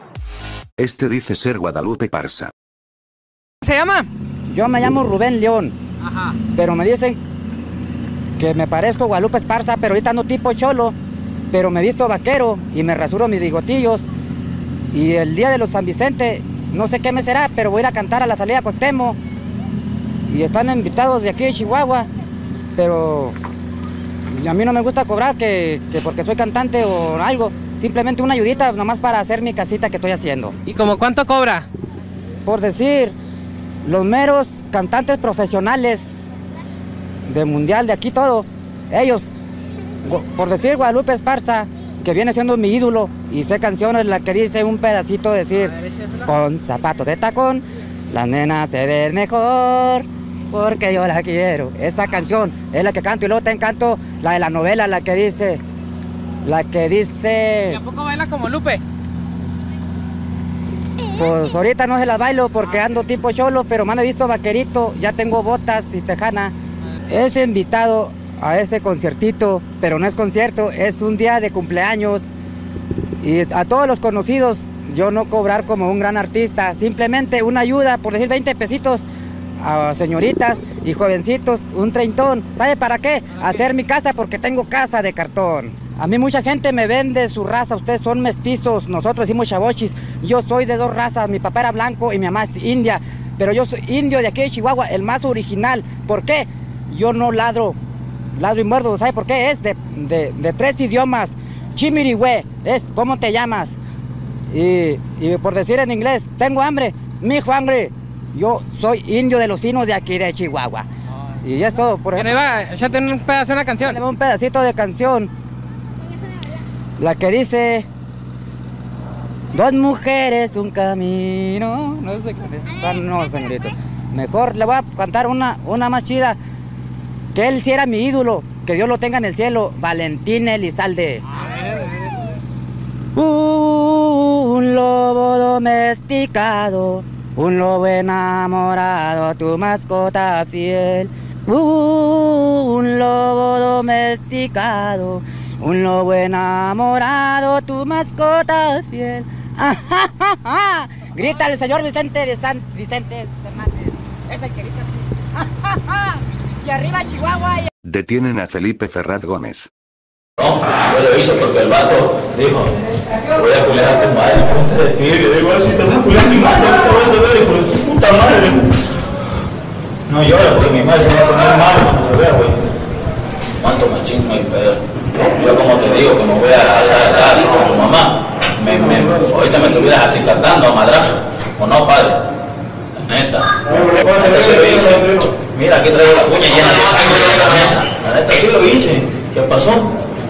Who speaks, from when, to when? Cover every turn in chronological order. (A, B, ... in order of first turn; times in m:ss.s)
0:00.8-0:02.5 A
0:03.6-0:04.1 B
0:04.5-0:05.8 C
0:06.5-0:07.2 C
0:08.4-0:11.0 C
0:11.5-0:14.1 C
0:14.9-0:19.2 C
0:20.3-0:22.1 C
0:22.8-0:23.4 C
0:24.3-0:30.6 C
0:30.7-0:31.7 B
0:32.4-0:33.2 C
0:33.8-0:36.3 C
0:37.2-0:39.3 C
0:40.0-0:55.6 C
0:56.4-0:57.8 C
0:57.8-0:58.8 B
1:01.1-1:06.5 C
1:07.1-1:12.3 C
1:13.2-1:19.1 C
1:19.6-1:37.8 C
1:38.3-1:43.8 C
1:44.5-1:50.9 C
1:51.4-1:52.4 C
1:52.2-1:54.0 B
1:53.8-1:55.3 C
1:57.0-1:57.9 C
1:59.5-2:06.4 C
2:07.3-2:11.2 C
2:13.2-2:37.7 C
2:37.8-2:39.7 A
2:40.4-2:42.8 D
2:43.3-2:48.8 D
2:50.1-2:52.6 D
2:53.6-3:02.2 D
3:03.0-3:09.9 D